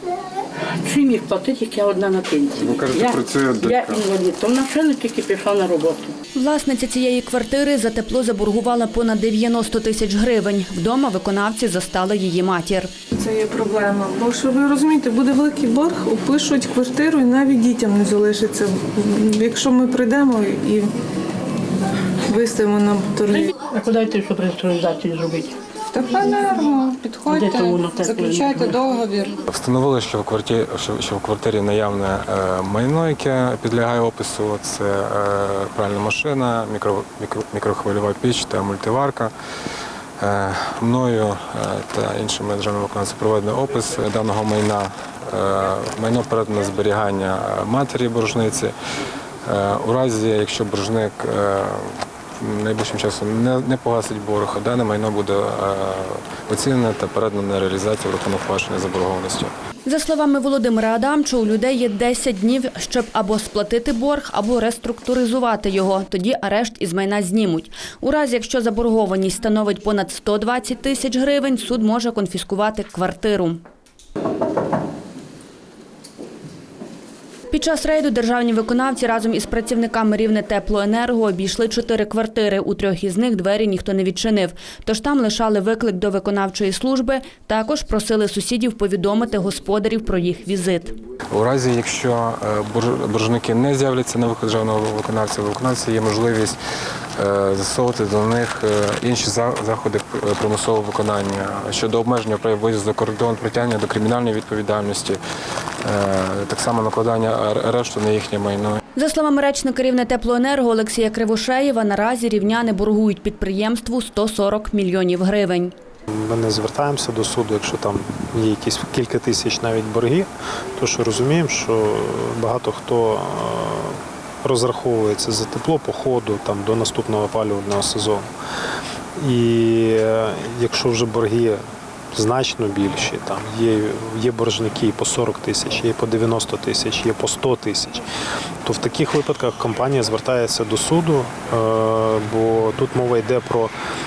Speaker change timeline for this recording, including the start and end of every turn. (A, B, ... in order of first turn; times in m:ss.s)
0:00.8-0:06.2 A
0:02.5-0:04.1 B
0:06.4-0:12.9 C
0:13.2-0:20.9 D
0:22.3-0:23.5 D
0:23.5-0:25.6 A
0:25.9-0:27.2 D
0:26.3-0:29.4 E
0:27.2-0:28.8 A
0:29.5-0:39.3 B
0:40.2-0:48.7 B
0:49.5-0:51.9 B
0:52.4-0:59.5 B
0:59.8-1:13.6 C
1:17.5-1:30.9 C
1:31.3-1:36.6 B
1:37.2-1:45.2 B
1:45.8-1:48.8 B
1:49.0-1:55.7 C
1:56.1-2:08.3 F
2:09.2-2:11.6 F
2:12.1-2:18.1 F
2:18.6-2:23.7 F